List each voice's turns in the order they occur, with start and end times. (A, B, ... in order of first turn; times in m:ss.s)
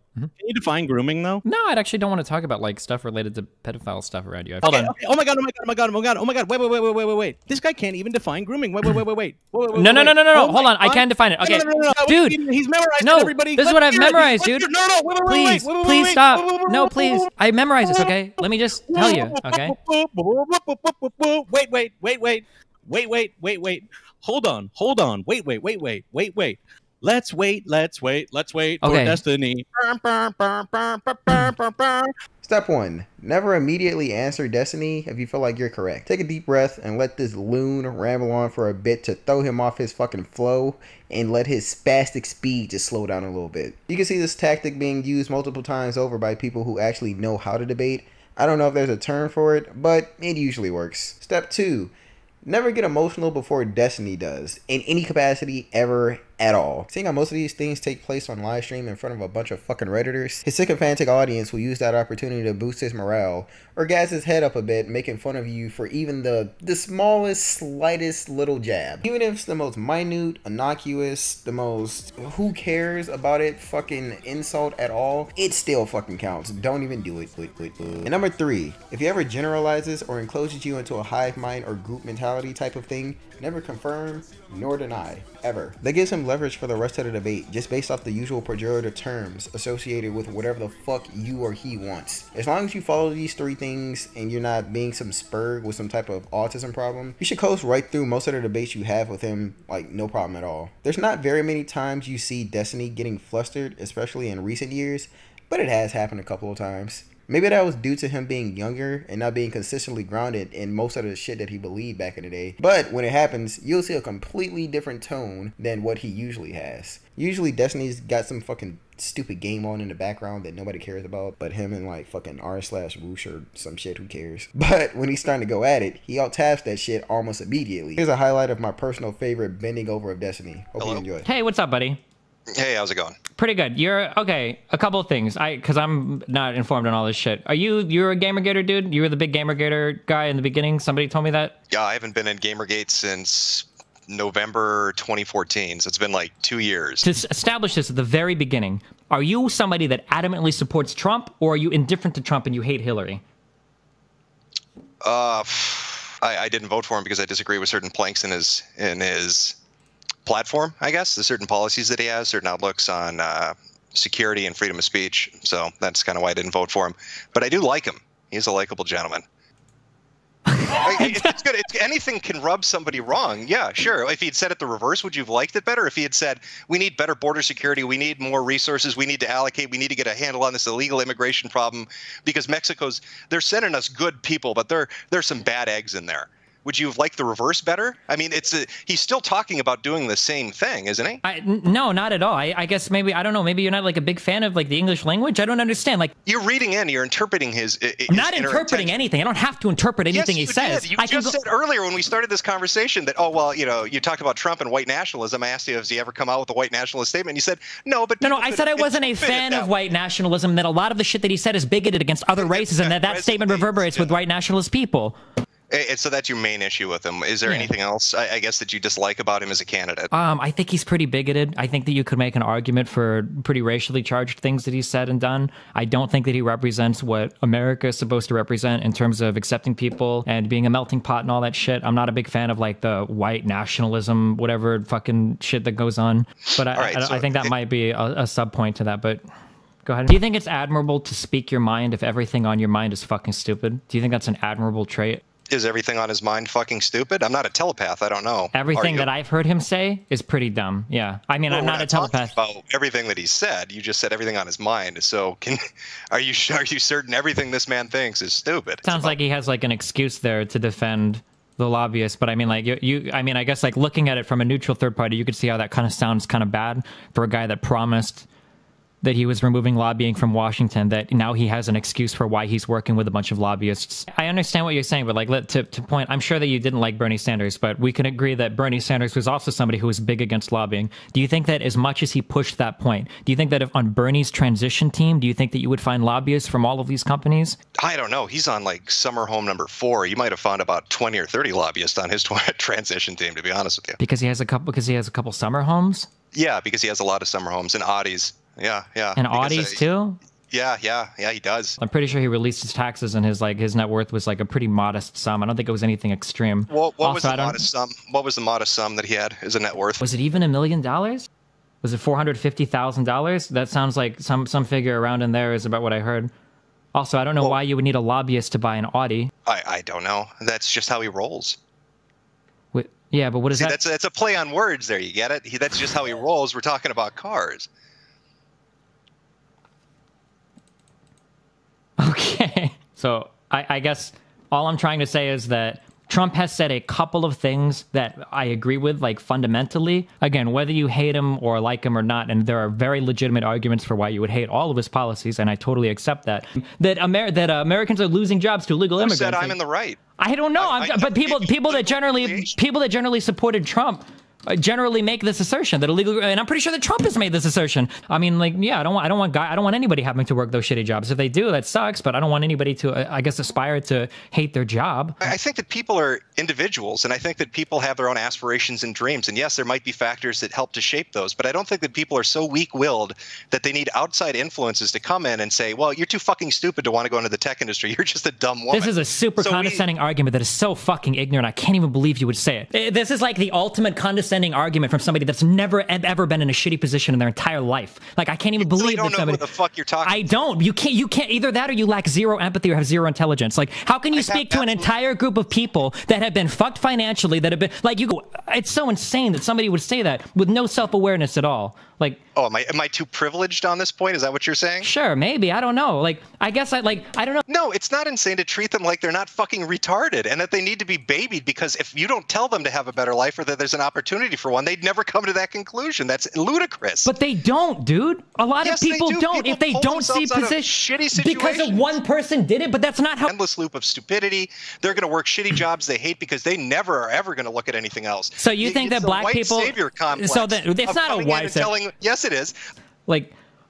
0:00.4-0:01.4 A
0:01.4-0:04.9 B
0:04.6-0:17.3 A
0:09.7-0:19.7 B
0:17.8-0:18.1 A
0:18.9-0:32.1 A
0:28.8-0:29.2 B
0:32.4-0:51.9 C
0:52.4-2:11.3 C
2:10.8-2:11.0 D
2:11.2-2:12.0 B
2:12.5-2:13.2 D
2:13.4-2:21.5 B
2:21.7-2:27.1 D
2:27.0-2:33.2 B
2:35.0-2:39.6 D
2:40.2-2:49.2 D
2:50.5-2:51.4 B
2:50.8-3:11.2 D
3:11.2-3:16.1 B
3:16.2-3:19.0 D
3:18.1-3:21.3 B
3:20.1-3:29.7 D
3:28.2-3:35.2 B
3:32.4-3:34.1 D
3:35.7-3:40.1 D
3:37.4-3:37.7 B
3:40.1-3:59.2 B
3:56.6-3:57.5 D
3:59.8-4:05.2 B
4:05.5-4:09.1 D
4:08.5-4:12.3 B
4:11.5-4:15.6 D
4:16.1-4:19.1 D
4:18.8-4:28.3 B
4:29.0-4:47.6 B
4:47.8-4:54.0 D
4:54.0-4:56.1 B
4:56.3-4:59.8 D
4:59.2-5:00.2 B
5:00.5-5:01.8 D
5:01.8-5:07.6 B
5:06.7-5:10.0 D
5:10.0-5:11.3 B
5:11.8-5:16.3 B
5:16.9-5:19.3 B
5:19.4-5:21.6 D
5:22.7-5:23.8 B
5:23.5-5:27.7 D
5:32.0-5:49.6 B
5:49.0-5:50.0 D
5:50.2-6:05.3 B
5:50.6-5:52.6 D
6:05.2-6:19.8 D
6:18.7-6:29.4 B
6:28.6-6:30.4 D
6:30.0-6:42.2 B
6:34.1-6:34.9 D
6:42.3-6:44.9 D
6:44.8-6:47.4 B
6:47.4-6:57.1 D
6:57.0-7:03.3 B
6:58.6-7:02.0 D
7:03.3-7:12.5 D
7:08.4-7:11.7 B
7:13.1-7:13.3 B